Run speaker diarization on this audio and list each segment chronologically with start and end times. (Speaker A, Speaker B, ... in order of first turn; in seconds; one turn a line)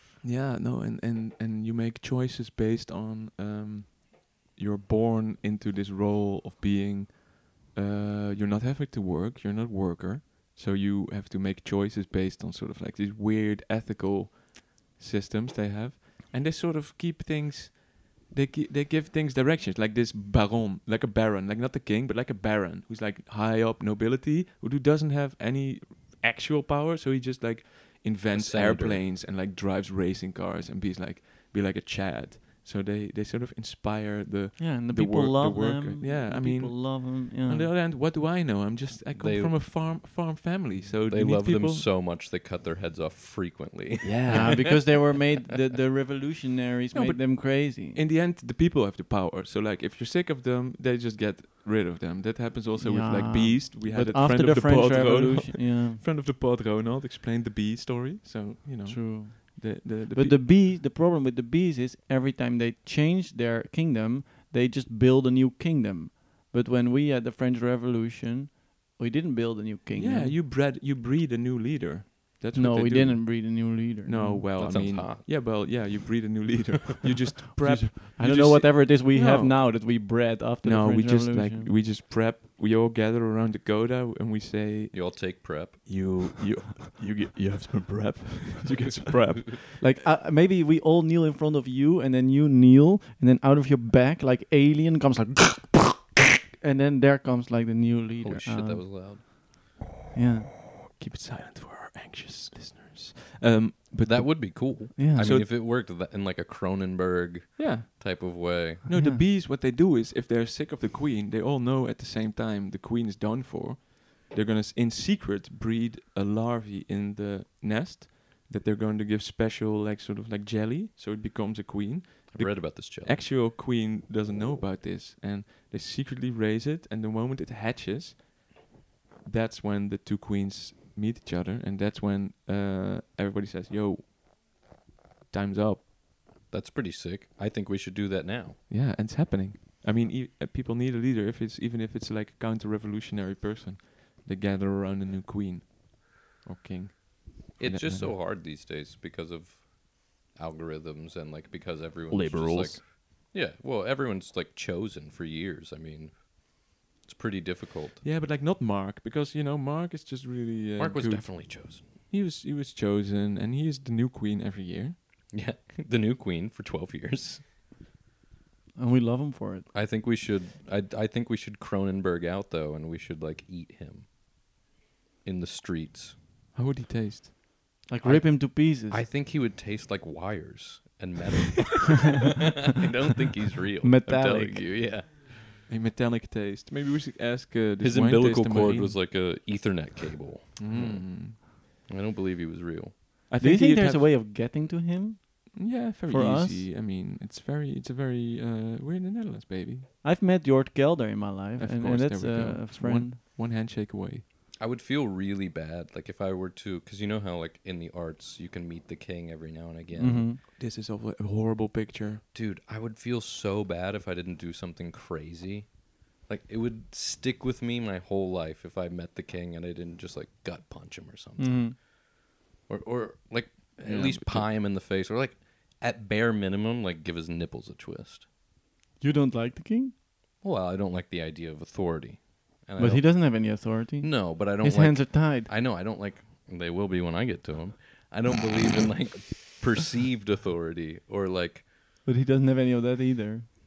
Speaker A: 0.2-41.9
Speaker B: 28.3-29.0
Speaker C: 34.6-37.7
Speaker B: 39.1-39.7
Speaker B: 41.1-44.7
Speaker A: 44.0-44.8
Speaker C: 44.3-48.0
Speaker A: 46.9-60.4
Speaker C: 52.8-56.0
Speaker C: 58.9-70.4
Speaker A: 70.0-79.8
Speaker C: 72.5-74.5
Speaker B: 74.6-75.3
Speaker C: 77.5-81.7
Speaker A: 80.6-89.9
Speaker B: 84.9-86.0
Speaker C: 89.8-99.3
Speaker B: 98.2-99.2
Speaker C: 100.1-100.6
Speaker A: 100.9-105.5
Speaker B: 104.0-108.8
Speaker C: 105.0-105.3
Speaker A: 107.6-107.9
Speaker A: 108.8-128.5
Speaker C: 108.9-109.2
Speaker B: 122.3-123.2
Speaker A: 129.2-134.1
Speaker A: 135.3-135.8
Speaker B: 136.5-138.6
Speaker A: 138.7-148.2
Speaker B: 147.6-158.0
Speaker A: 152.1-152.8
Speaker A: 158.0-165.0
Speaker B: 160.8-161.8
Speaker B: 165.3-167.4
Speaker C: 168.8-169.7
Speaker B: 169.7-174.1
Speaker B: 175.2-176.2
Speaker A: 176.5-177.4
Speaker C: 177.9-179.0
Speaker B: 178.0-185.6
Speaker C: 183.8-184.7
Speaker A: 185.7-189.0
Speaker B: 187.8-192.9
Speaker A: 190.6-191.4
Speaker A: 193.3-194.1
Speaker C: 193.4-196.7
Speaker A: 195.5-199.9
Speaker C: 200.0-203.2
Speaker A: 201.6-204.2
Speaker B: 204.6-210.3
Speaker C: 209.9-210.4
Speaker A: 210.5-212.2
Speaker B: 212.3-215.7
Speaker B: 216.2-222.0
Speaker C: 221.4-221.8
Speaker B: 222.7-228.3
Speaker A: 223.8-224.5
Speaker C: 229.0-229.9
Speaker B: 230.4-241.7
Speaker C: 232.8-235.5
Speaker C: 242.0-243.5